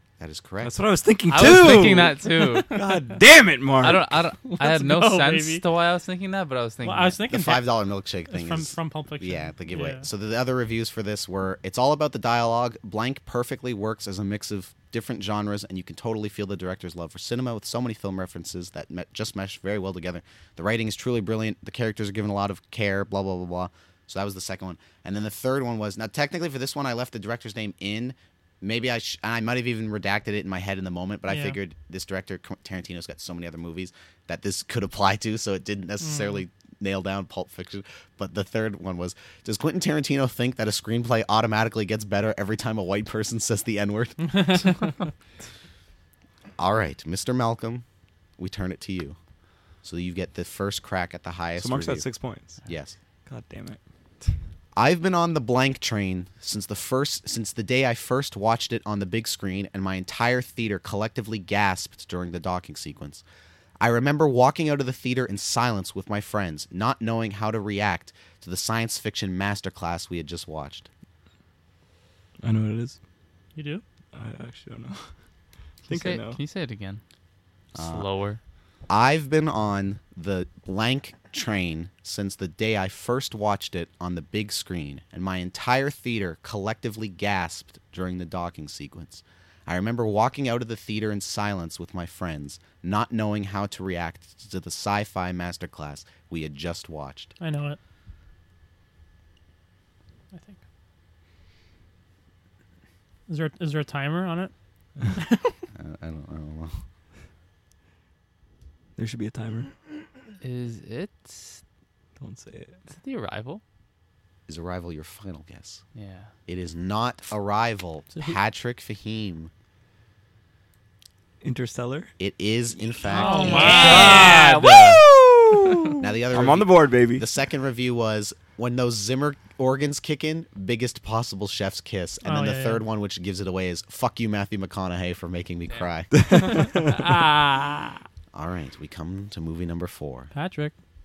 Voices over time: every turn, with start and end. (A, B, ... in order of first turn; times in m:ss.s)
0:00.2-0:00.7 A
0:00.6-0:04.2 B
0:01.3-0:02.8 C
0:02.3-0:03.0 D
0:03.8-0:07.2 C
0:04.5-0:05.6 D
0:06.8-0:07.7 D
0:07.3-0:44.7 A
0:08.3-0:10.1 D
0:31.3-0:31.6 D
0:36.0-0:36.4 D
0:44.3-0:44.9 D
0:46.6-0:47.8 A
0:48.4-0:49.2 A
0:49.8-0:52.1 A
0:51.6-0:52.6 B
0:52.6-0:53.0 A
0:53.3-0:54.3 B
0:54.8-1:03.2 A
1:03.8-1:10.9 A
1:12.4-1:13.0 B
1:13.6-1:13.8 D
1:14.1-1:15.1 B
1:15.9-1:16.4 B
1:15.9-1:17.0 C
1:17.7-1:18.1 A
1:17.8-1:18.4 C
1:18.9-1:37.3 A
1:37.4-1:37.8 D
1:40.3-1:40.6 D
1:43.3-1:45.6 D
1:45.8-1:46.8 A
1:49.0-1:49.7 B
1:50.4-1:51.6 C
1:52.2-1:52.8 B
1:52.9-1:53.6 C
1:54.5-1:55.8 A
1:56.0-1:56.3 C
1:56.5-1:59.5 A
2:01.4-2:02.1 B
2:02.2-2:04.0 A
2:03.1-2:04.4 D
2:03.1-2:05.0 C
2:03.4-2:07.2 B
2:06.0-2:16.2 A
2:12.2-2:12.8 D
2:16.1-2:17.0 B
2:16.5-2:18.1 D
2:18.3-2:20.3 A
2:20.3-2:20.7 D